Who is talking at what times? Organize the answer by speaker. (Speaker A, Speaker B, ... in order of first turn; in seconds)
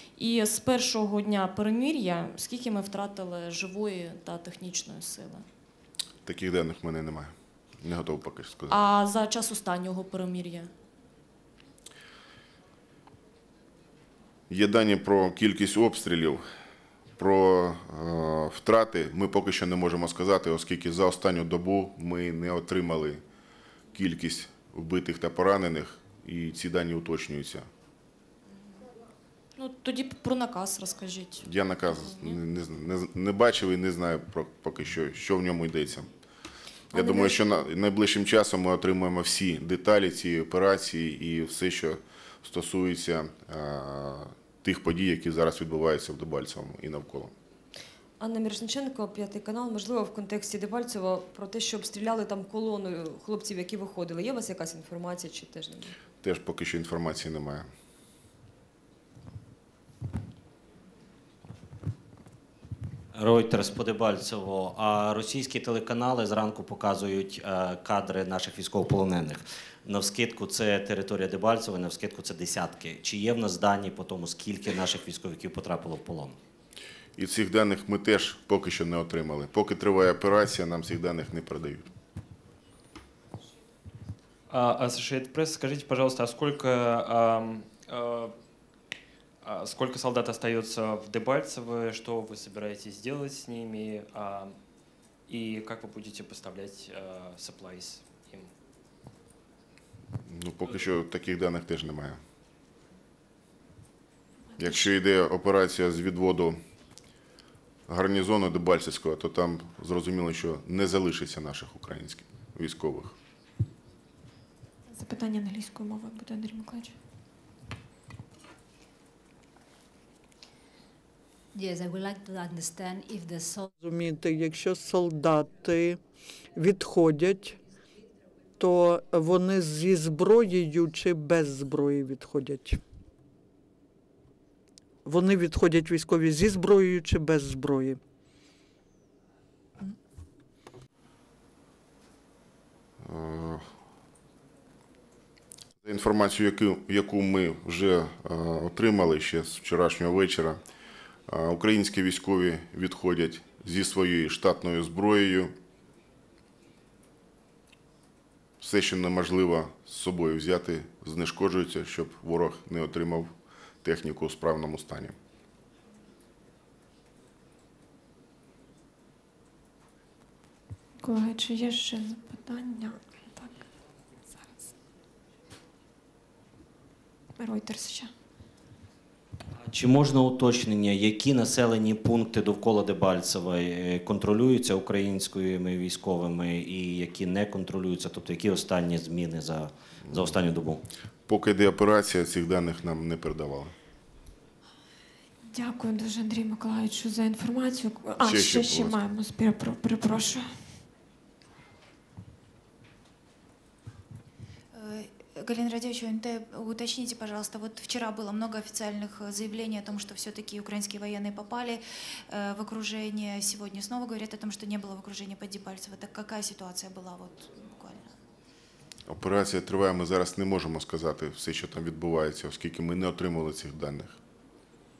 Speaker A: 0.2-5.4, 8.7-10.7, 29.6-32.4, 36.9-37.4
Speaker B: 6.2-8.8, 14.5-16.4, 17.2-23.2, 23.9-27.6, 31.4-36.1, 36.9-47.3, 56.2-57.7, 77.2-81.9, 100.2-102.2, 104.6-106.6, 107.9-113.1, 143.0-143.6, 145.8-150.6, 151.3-155.5, 158.6-163.3, 163.8-165.1, 191.3-193.7, 198.2-199.0, 219.1-224.2
Speaker C: 48.2-55.9
Speaker D: 63.1-76.4, 179.6-190.8
Speaker E: 84.5-88.3, 89.4-94.5, 95.3-98.5
Speaker F: 114.9-116.9, 171.0-173.6, 177.4-178.1, 195.5-200.5
Speaker G: 121.6-123.7
Speaker H: 123.8-126.0, 126.5-127.6, 128.6-132.8, 135.0-138.0
Speaker I: 204.7-218.2